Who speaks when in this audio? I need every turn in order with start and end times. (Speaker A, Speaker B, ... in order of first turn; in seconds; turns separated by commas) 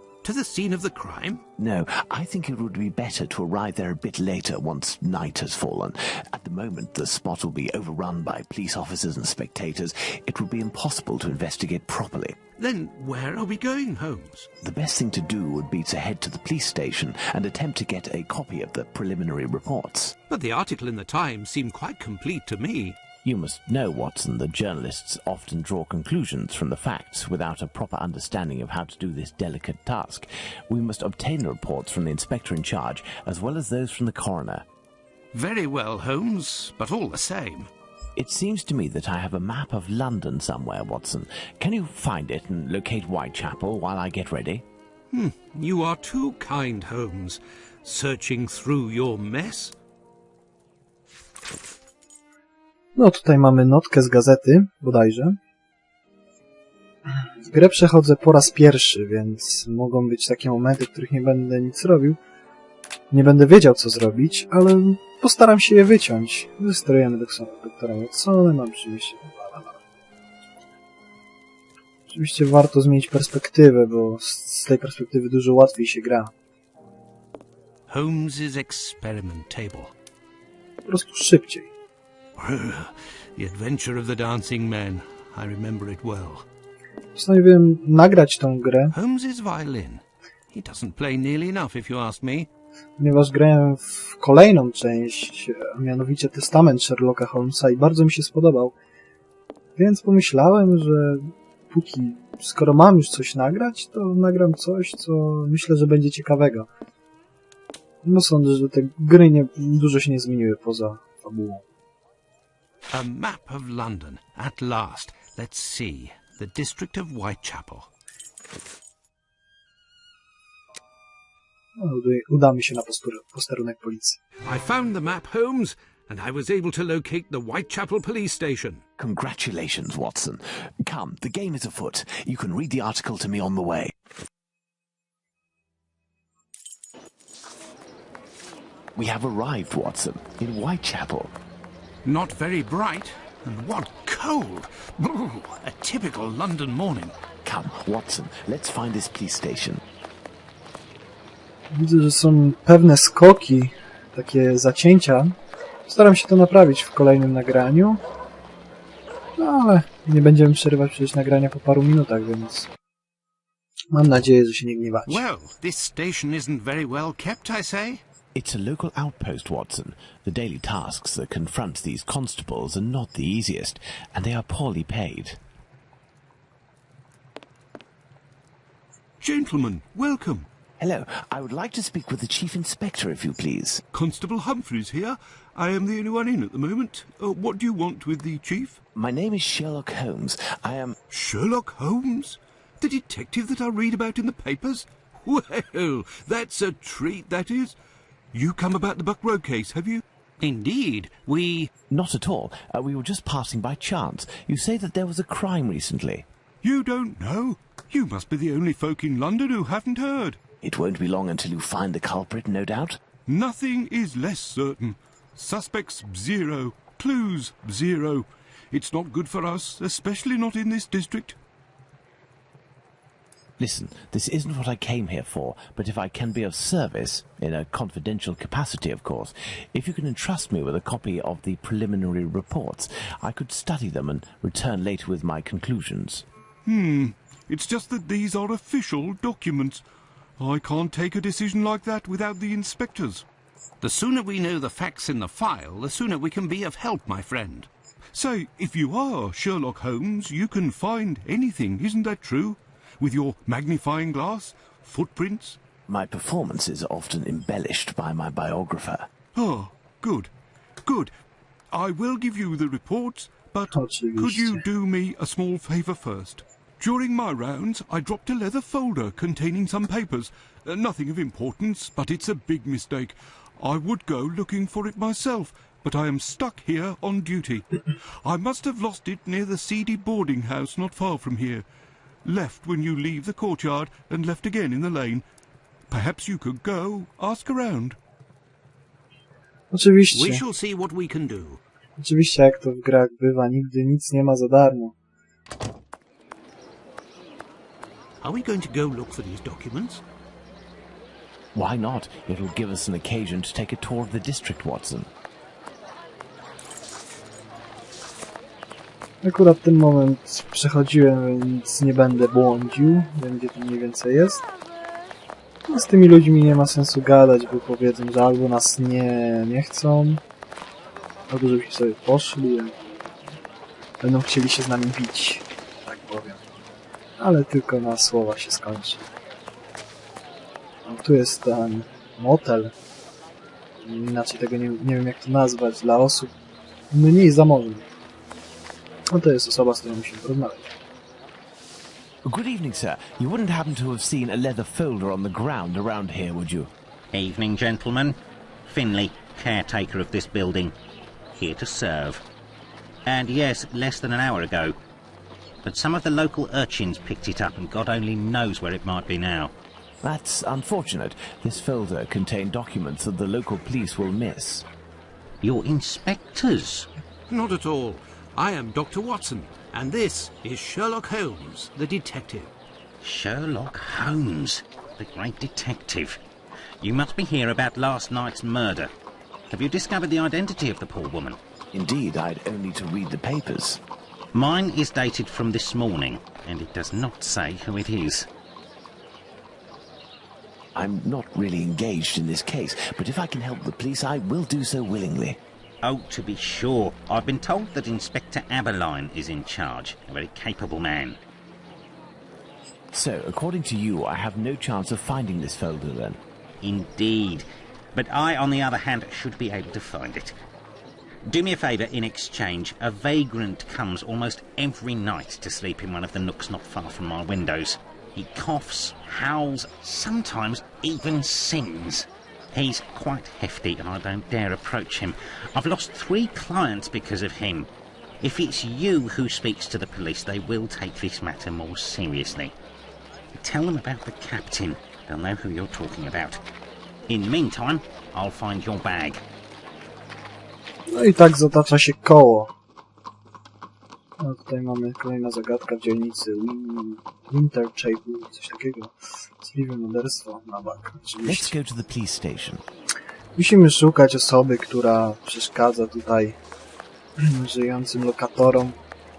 Speaker A: 0.2-1.4, Speaker B: 1.6-12.4, Speaker A: 12.6-14.5, Speaker B: 14.6-20.1, Speaker A: 20.3-23.0, Speaker B: 23.2-34.6, Speaker A: 35.3-37.7, Speaker B: 38.2-44.6, Speaker A: 45.1-49.8, Speaker C: 53.0-55.4, Speaker C: 57.4-62.2, Speaker C: 63.1-69.8, Speaker C: 72.1-76.3, Speaker A: 77.9-79.9, Speaker C: 80.9-81.7, Speaker A: 82.4-86.5, Speaker C: 87.2-88.9, Speaker A: 88.9-92.5, Speaker C: 93.0-98.7, Speaker C: 99.8-106.7, Speaker C: 108.0-111.7, Speaker A: 112.9-117.9, Speaker C: 121.8-124.2, Speaker A: 124.5-128.8, Speaker B: 129.0-133.9, Speaker B: 139.0-141.3, Speaker A: 142.1-147.2, Speaker B: 147.4-149.8, Speaker C: 151.7-155.4, Speaker C: 155.9-158.0, Speaker C: 159.4-162.7, Speaker C: 163.9-165.2, Speaker A: 165.1-168.0, Speaker B: 168.3-175.4, Speaker A: 179.2-180.5, Speaker D: 179.4-179.9, Speaker B: 180.8-183.8, Speaker D: 183.9-188.8, Speaker B: 188.9-191.0, Speaker A: 191.1-192.4, Speaker D: 191.6-192.2, Speaker D: 192.8-194.9, Speaker A: 195.2-197.2, Speaker D: 196.0-197.8, Speaker D: 198.3-200.0, Speaker A: 200.4-201.7, Speaker B: 201.9-206.3, Speaker D: 206.6-210.4, Speaker B: 210.6-213.0, Speaker D: 213.3-221.4, Speaker B: 223.6-236.2, Speaker D: 236.7-239.8, Speaker D: 240.4-243.2, Speaker A: 243.8-247.7, Speaker D: 248.1-255.6, Speaker B: 255.9-259.1, Speaker D: 259.4-260.3, Speaker D: 260.9-261.1, Speaker D: 261.7-281.6, Speaker C: 263.7-264.6, Speaker D: 282.2-285.2, Speaker D: 285.9-288.0, Speaker C: 289.7-290.4, Speaker A: 290.1-291.6, Speaker C: 292.0-294.9, Speaker A: 298.2-300.0, Speaker B: 301.6-305.1, Speaker C: 309.2-314.4, Speaker C: 315.7-320.2, Speaker C: 321.3-323.1, Speaker C: 324.0-326.4, Speaker C: 327.2-329.1, Speaker C: 330.9-332.7, Speaker C: 333.8-336.3, Speaker C: 336.9-337.9, Speaker C: 339.1-340.7, Speaker B: 342.2-346.7, Speaker E: 347.1-350.8, Speaker E: 351.4-352.2, Speaker E: 353.1-354.7, Speaker E: 355.6-359.5, Speaker B: 360.0-364.7, Speaker E: 365.4-366.9, Speaker A: 367.3-372.5, Speaker E: 373.0-376.2, Speaker E: 376.8-378.9, Speaker E: 379.5-381.4, Speaker B: 381.7-383.8, Speaker E: 384.3-388.3, Speaker B: 390.8-395.4, Speaker E: 395.8-401.2, Speaker B: 402.9-406.2, Speaker E: 406.6-410.3, Speaker E: 411.3-427.7, Speaker E: 428.2-432.5, Speaker E: 433.4-436.4, Speaker E: 437.1-439.2, Speaker C: 440.9-442.5, Speaker C: 444.2-451.5, Speaker B: 451.2-452.6, Speaker C: 453.4-456.4, Speaker C: 457.2-458.8